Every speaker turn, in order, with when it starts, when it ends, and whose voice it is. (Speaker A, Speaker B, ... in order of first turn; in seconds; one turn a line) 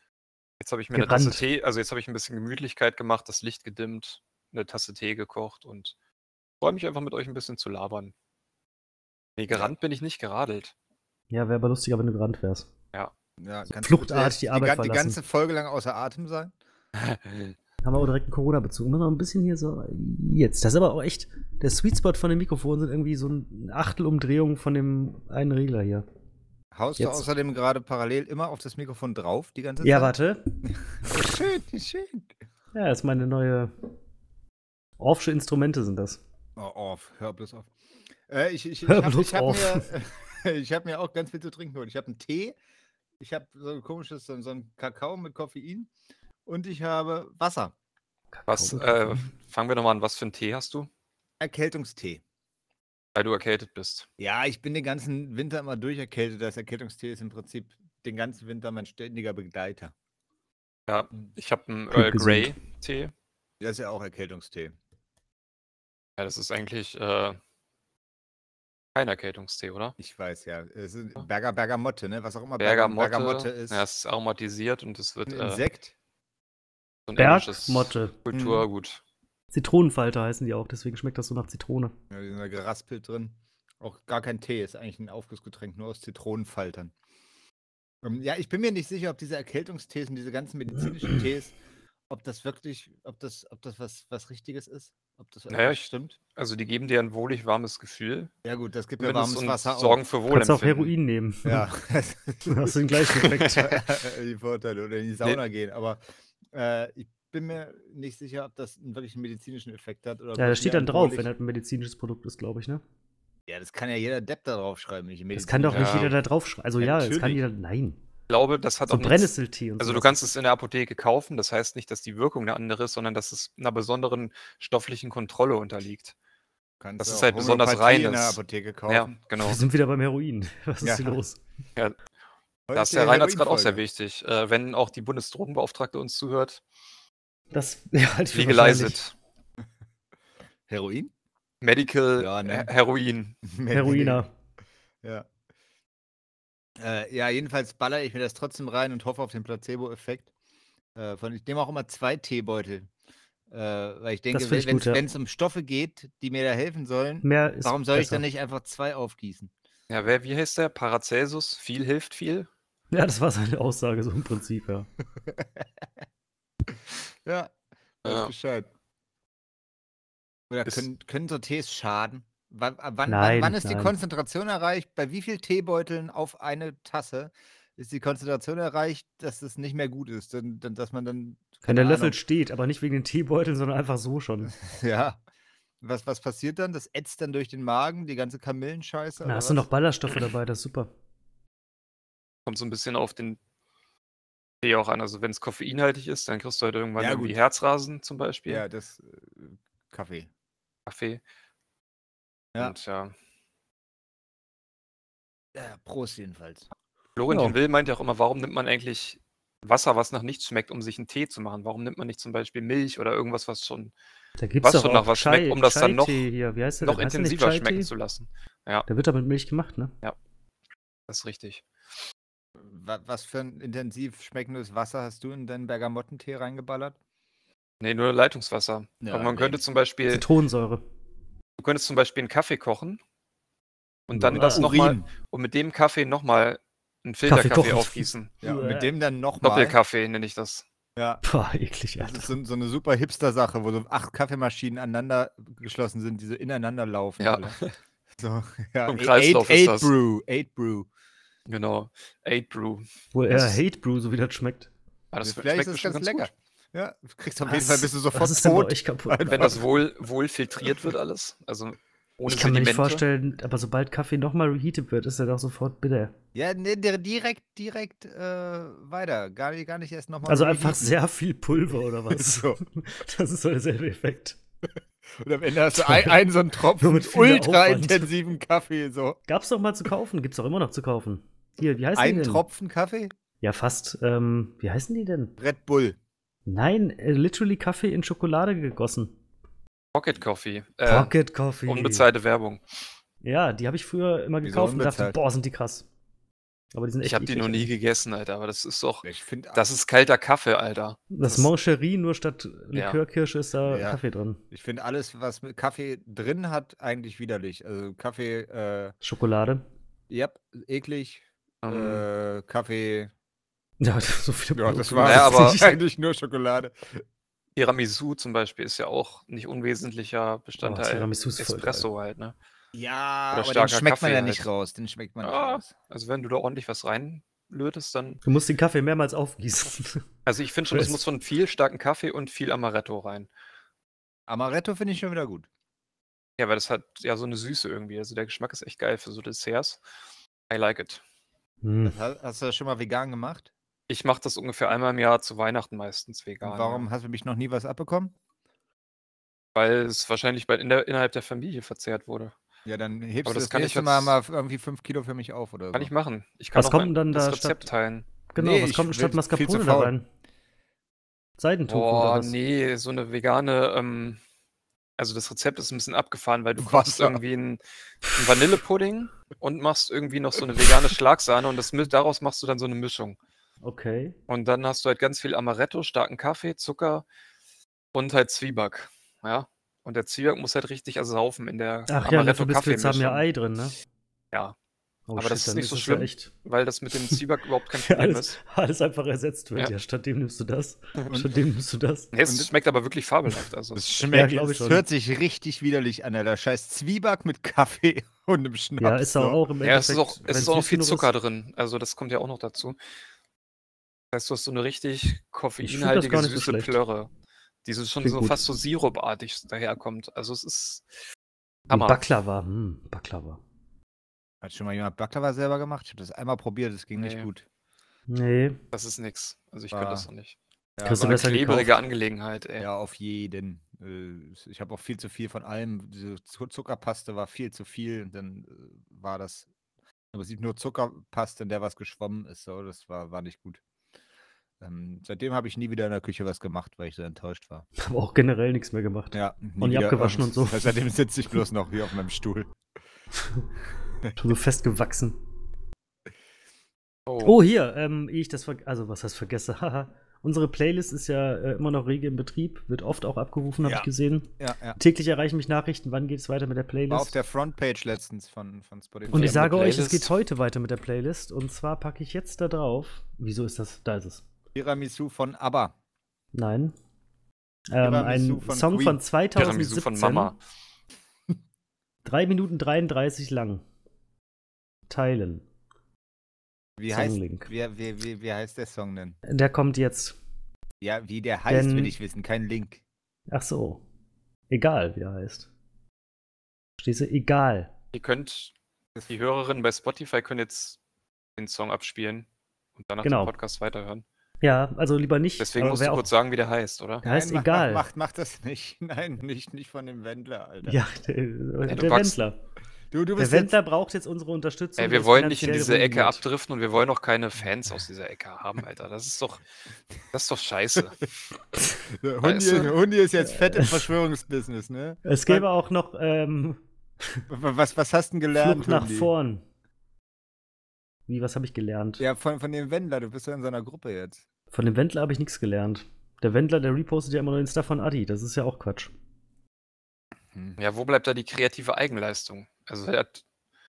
Speaker A: 0.6-5.9
Speaker B: 0.9-1.4
Speaker A: 6.6-8.1
Speaker A: 9.4-10.7
Speaker B: 11.3-12.7
Speaker C: 13.4-16.5
Speaker B: 13.8-15.2
Speaker A: 16.9-17.6
Speaker B: 17.8-26.0
Speaker C: 26.7-30.1
Speaker B: 27.0-27.2
Speaker B: 29.8-30.6
Speaker C: 31.0-32.3
Speaker B: 32.7-33.7
Speaker B: 35.0-36.2
Speaker C: 36.6-37.7
Speaker C: 38.3-42.5
Speaker B: 38.9-39.9
Speaker C: 43.2-45.9
Speaker C: 46.5-47.7
Speaker B: 48.3-49.3
Speaker A: 48.5-50.9
Speaker C: 51.4-52.2
Speaker A: 53.1-54.1
Speaker C: 54.2-59.9
Speaker A: 60.9-63.1
Speaker B: 61.9-62.5
Speaker C: 63.6-64.7
Speaker A: 66.2-67.4
Speaker A: 68.9-69.9
Speaker C: 70.0-73.8
Speaker A: 72.6-75.6
Speaker C: 75.3-75.9
Speaker A: 77.1-79.0
Speaker B: 77.2-78.2
Speaker C: 78.3-78.7
Speaker B: 79.5-81.9
Speaker C: 82.1-86.9
Speaker C: 88.0-91.5
Speaker C: 92.1-96.2
Speaker A: 95.5-98.3
Speaker C: 98.4-100.0
Speaker A: 99.0-100.9
Speaker B: 100.3-101.7
Speaker C: 101.4-102.7
Speaker B: 102.4-103.8
Speaker A: 103.1-103.5
Speaker C: 103.4-106.0
Speaker C: 106.5-111.3
Speaker B: 110.4-112.8
Speaker C: 113.5-116.1
Speaker B: 115.3-118.0
Speaker A: 115.7-116.1
Speaker C: 116.8-117.4
Speaker A: 118.3-126.1
Speaker B: 118.9-120.2
Speaker C: 126.8-129.1
Speaker A: 127.0-129.6
Speaker B: 129.4-131.4
Speaker C: 130.8-131.2
Speaker C: 132.7-133.8
Speaker A: 132.7-136.6
Speaker B: 137.5-139.0
Speaker A: 138.3-139.1
Speaker C: 140.7-141.1
Speaker A: 141.6-143.3
Speaker C: 142.2-142.7
Speaker C: 143.4-144.2
Speaker B: 143.7-144.3
Speaker C: 146.8-150.3
Speaker C: 150.9-152.9
Speaker C: 153.5-159.5
Speaker B: 154.3-155.0
Speaker B: 157.2-158.2
Speaker A: 159.9-162.5
Speaker B: 162.9-164.9
Speaker C: 165.3-165.8
Speaker C: 166.7-167.5
Speaker C: 168.0-168.7
Speaker A: 168.0-168.3
Speaker C: 170.5-182.2
Speaker B: 173.1-173.9
Speaker B: 181.7-184.5
Speaker C: 184.5-185.2
Speaker C: 185.8-189.7
Speaker B: 189.2-190.9
Speaker A: 192.4-193.4
Speaker A: 194.6-198.6
Speaker C: 197.0-197.4
Speaker C: 198.5-200.3
Speaker A: 200.8-201.2
Speaker A: 202.6-203.1
Speaker C: 205.5-206.7
Speaker A: 207.2-213.9
Speaker B: 207.3-207.6
Speaker B: 214.4-217.9
Speaker A: 214.6-216.3
Speaker A: 216.8-218.8
Speaker B: 218.9-219.9
Speaker A: 221.1-221.6
Speaker C: 222.6-226.9
Speaker A: 227.8-230.2
Speaker C: 229.0-229.6
Speaker B: 230.1-230.8
Speaker A: 231.6-233.0
Speaker A: 234.1-238.3
Speaker B: 234.1-234.7
Speaker C: 234.3-235.1
Speaker B: 237.2-238.9
Speaker C: 238.4-239.8
Speaker A: 239.4-240.6
Speaker C: 240.9-241.2
Speaker B: 241.2-242.3
Speaker C: 242.0-247.6
Speaker A: 247.2-247.7
Speaker C: 248.2-250.9
Speaker A: 248.9-249.9
Speaker A: 251.5-253.6
Speaker B: 253.1-254.7
Speaker A: 255.1-256.3
Speaker C: 255.2-259.6
Speaker B: 257.4-259.5
Speaker A: 259.3-263.0
Speaker B: 262.2-266.1
Speaker C: 266.3-270.9
Speaker B: 270.3-274.4
Speaker C: 272.1-272.6
Speaker C: 275.1-279.2
Speaker B: 275.7-276.2
Speaker B: 276.8-278.1
Speaker B: 279.3-282.4
Speaker C: 281.9-283.1
Speaker B: 283.4-285.3
Speaker C: 285.4-286.0
Speaker B: 286.4-289.1
Speaker A: 289.9-291.1
Speaker B: 290.8-292.1
Speaker A: 291.7-292.6
Speaker B: 293.2-295.9
Speaker C: 294.4-295.1
Speaker B: 296.7-297.7
Speaker A: 297.0-301.5
Speaker C: 299.0-299.6
Speaker B: 301.1-304.4
Speaker A: 302.7-303.0
Speaker C: 303.7-304.0
Speaker C: 304.5-308.9
Speaker B: 309.0-309.6
Speaker C: 310.1-313.1
Speaker A: 311.6-312.0
Speaker B: 313.8-315.8
Speaker C: 314.6-317.0
Speaker A: 315.0-315.6
Speaker A: 317.6-322.3
Speaker B: 320.6-321.9
Speaker C: 322.7-325.7
Speaker A: 323.3-324.4
Speaker A: 325.2-328.2
Speaker B: 328.2-330.0
Speaker A: 330.2-333.3
Speaker B: 330.7-331.0
Speaker C: 334.3-335.5
Speaker A: 336.4-339.8
Speaker A: 340.5-341.0
Speaker B: 341.6-342.0
Speaker C: 341.8-343.5
Speaker A: 343.9-346.8
Speaker C: 346.4-348.1
Speaker A: 349.5-352.3
Speaker C: 352.6-355.9
Speaker A: 353.2-354.1
Speaker A: 355.7-358.1
Speaker B: 356.5-357.7
Speaker B: 358.3-360.1
Speaker C: 358.4-359.9
Speaker B: 361.4-362.3
Speaker A: 361.7-364.2
Speaker A: 365.0-373.2
Speaker C: 366.6-367.2
Speaker B: 373.6-374.1
Speaker A: 374.3-377.0
Speaker A: 377.9-383.2
Speaker B: 381.9-383.7
Speaker B: 385.1-386.3
Speaker A: 385.1-388.4
Speaker B: 387.8-392.1
Speaker A: 392.1-394.1
Speaker C: 392.2-392.5
Speaker C: 393.8-399.4
Speaker B: 394.1-394.8
Speaker B: 398.8-401.1
Speaker A: 399.6-402.8
Speaker A: 404.1-407.1
Speaker B: 405.6-406.8
Speaker A: 407.6-410.8
Speaker B: 408.0-408.4
Speaker A: 411.7-412.1
Speaker B: 411.7-413.4
Speaker C: 414.4-417.4
Speaker A: 416.9-417.3
Speaker B: 418.1-418.6
Speaker A: 418.7-420.4
Speaker C: 419.7-420.1
Speaker C: 420.8-421.2
Speaker B: 420.8-421.7
Speaker A: 420.9-422.7
Speaker C: 422.6-429.5
Speaker C: 430.1-433.6
Speaker C: 434.6-437.6
Speaker B: 437.8-440.7
Speaker C: 439.1-442.5
Speaker B: 444.1-445.2
Speaker A: 447.1-447.4
Speaker B: 447.2-457.1
Speaker C: 453.6-454.8
Speaker C: 456.9-459.7
Speaker A: 459.1-460.1
Speaker B: 459.1-464.2
Speaker C: 464.5-465.7
Speaker B: 466.3-466.7
Speaker B: 467.7-470.3
Speaker C: 467.8-469.0
Speaker A: 469.4-470.4
Speaker B: 472.0-473.6
Speaker B: 474.9-475.4
Speaker C: 476.8-479.2
Speaker B: 476.9-477.5
Speaker B: 479.3-480.1
Speaker C: 480.8-482.8
Speaker B: 481.5-481.9
Speaker B: 483.3-483.8
Speaker B: 484.5-485.5
Speaker B: 486.8-487.7
Speaker A: 487.9-488.5
Speaker A: 489.1-490.8
Speaker A: 491.4-494.0
Speaker B: 493.0-493.3
Speaker B: 494.4-496.1
Speaker A: 495.4-497.0
Speaker C: 497.0-500.8
Speaker B: 497.0-497.9
Speaker B: 500.6-502.4
Speaker A: 501.7-502.2
Speaker C: 502.9-503.5
Speaker B: 503.2-506.2
Speaker A: 504.8-509.4
Speaker A: 510.1-511.0
Speaker C: 511.8-515.5
Speaker A: 512.2-512.7
Speaker B: 513.3-513.8
Speaker B: 515.0-517.2
Speaker C: 517.3-519.1
Speaker B: 518.4-519.4
Speaker B: 521.1-522.0
Speaker C: 522.0-524.2
Speaker B: 524.5-528.9
Speaker A: 530.6-533.2